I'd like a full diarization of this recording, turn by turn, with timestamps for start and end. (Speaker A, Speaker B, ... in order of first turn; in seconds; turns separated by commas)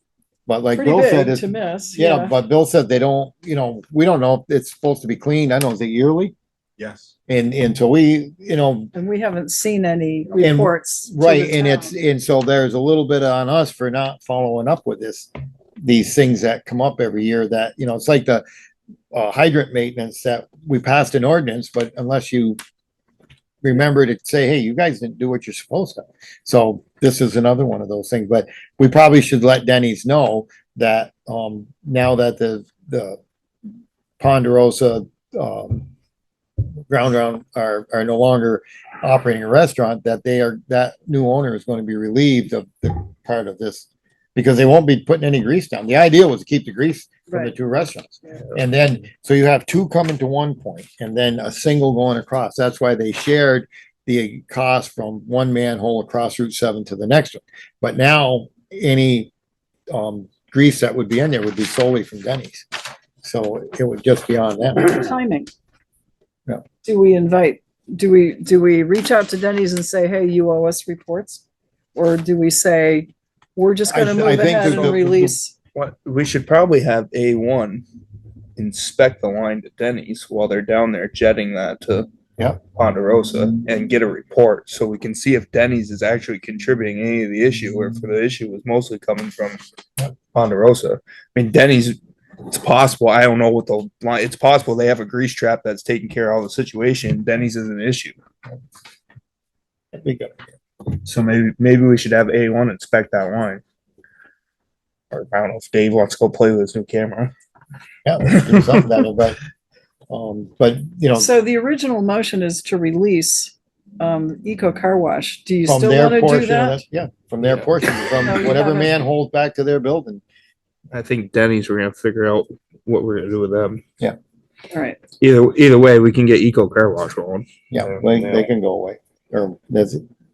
Speaker A: 0.5-6.3, Speaker B: 0.7-2.4, Speaker C: 6.8-7.0, Speaker A: 7.3-8.9, Speaker B: 8.9-11.9, Speaker A: 10.4-15.3, Speaker A: 15.8-18.4, Speaker A: 19.1-22.6, Speaker A: 23.6-33.2, Speaker A: 34.2-35.9, Speaker A: 36.9-59.3, Speaker A: 59.9-62.7, Speaker A: 63.2-65.1, Speaker B: 64.7-65.5, Speaker B: 66.8-71.4, Speaker B: 71.9-75.5, Speaker A: 73.9-75.3, Speaker C: 74.6-74.9, Speaker C: 75.7-77.8, Speaker C: 78.6-82.1, Speaker C: 82.7-98.2, Speaker A: 99.9-100.4, Speaker C: 101.0-103.6, Speaker C: 105.1-107.3, Speaker A: 108.0-109.4, Speaker A: 110.1-111.3, Speaker B: 111.1-116.8, Speaker A: 115.6-120.2, Speaker B: 118.1-119.0, Speaker C: 120.9-123.8, Speaker B: 124.7-125.0, Speaker C: 125.2-128.5, Speaker A: 127.7-130.0